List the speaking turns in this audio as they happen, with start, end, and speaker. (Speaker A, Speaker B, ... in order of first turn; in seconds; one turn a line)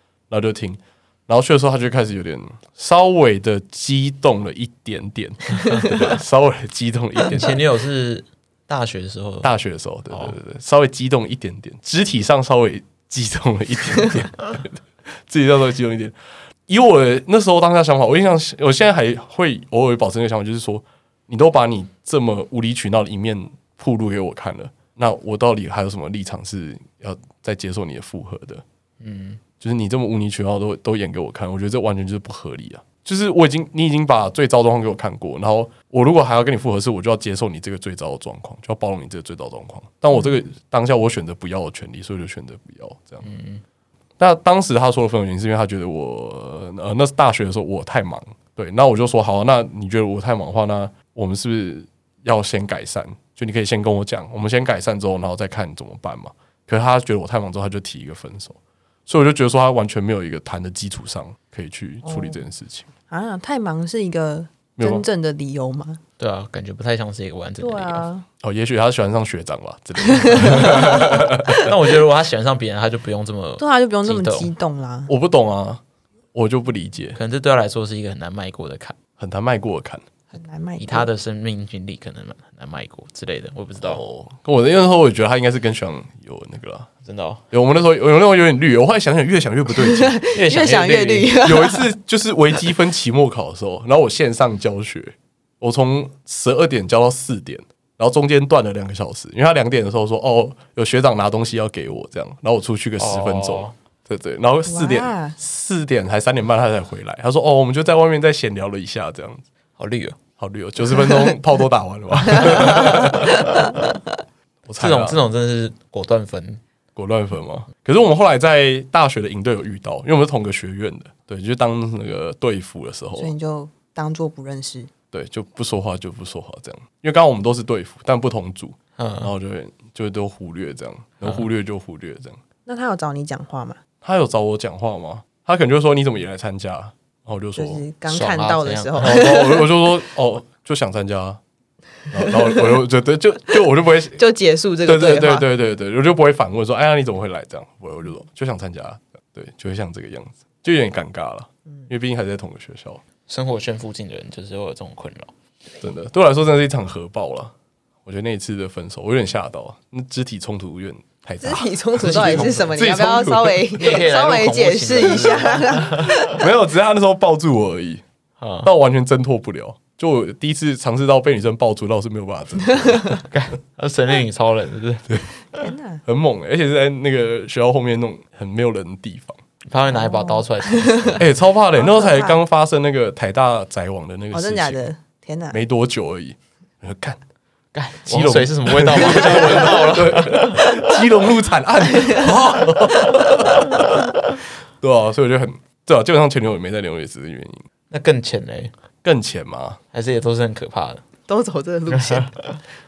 Speaker A: 0.3-7.6
Speaker B: 5.7-6.0
Speaker B: 7.2-9.5
Speaker A: 9.4-16.2
Speaker A: 16.7-28.6
Speaker B: 29.0-29.4
Speaker A: 29.6-43.3
Speaker B: 43.2-43.6
Speaker A: 44.2-62.9
Speaker C: 62.0-62.4
Speaker C: 63.1-66.0
Speaker A: 64.8-65.0
Speaker B: 66.2-68.0
Speaker C: 67.6-68.3
Speaker A: 68.4-71.8
Speaker C: 70.1-71.6
Speaker B: 71.5-74.5
Speaker C: 73.6-75.1
Speaker A: 75.1-75.8
Speaker A: 76.3-77.2
Speaker B: 77.2-79.0
Speaker A: 79.2-80.0
Speaker C: 80.3-81.1
Speaker B: 80.8-84.0
Speaker A: 83.8-86.9
Speaker B: 87.0-87.4
Speaker A: 87.5-90.2
Speaker C: 89.8-91.9
Speaker B: 90.3-91.4
Speaker A: 91.4-109.4
Speaker B: 103.0-103.8
Speaker C: 104.7-105.4
Speaker B: 109.8-110.2
Speaker A: 110.4-113.6
Speaker C: 112.3-114.0
Speaker A: 114.7-115.2
Speaker B: 114.8-116.6
Speaker A: 117.0-123.3
Speaker C: 123.2-124.9
Speaker A: 125.1-132.4
Speaker B: 129.0-129.3
Speaker C: 132.7-133.8
Speaker A: 134.0-137.8
Speaker C: 137.6-139.6
Speaker B: 138.1-139.4
Speaker A: 139.0-141.4
Speaker A: 142.1-144.2
Speaker C: 144.2-145.5
Speaker A: 144.8-153.0
Speaker B: 153.3-155.3
Speaker A: 155.8-157.5
Speaker A: 158.1-163.8
Speaker C: 161.4-166.4
Speaker B: 162.0-162.7
Speaker B: 163.8-166.2
Speaker A: 166.3-168.0
Speaker B: 168.4-168.7
Speaker A: 168.6-173.2
Speaker C: 172.8-173.2
Speaker B: 173.2-175.6
Speaker C: 175.5-176.0
Speaker A: 176.1-179.4
Speaker B: 179.7-181.3
Speaker C: 179.9-181.2
Speaker A: 181.2-184.9
Speaker C: 181.8-182.4
Speaker C: 184.3-185.6
Speaker A: 185.5-187.2
Speaker B: 187.7-190.8
Speaker A: 188.1-193.9
Speaker C: 191.9-192.2
Speaker A: 194.8-197.6
Speaker B: 197.9-198.7
Speaker A: 199.0-199.8
Speaker B: 199.9-201.0
Speaker C: 201.3-202.3
Speaker B: 201.9-202.5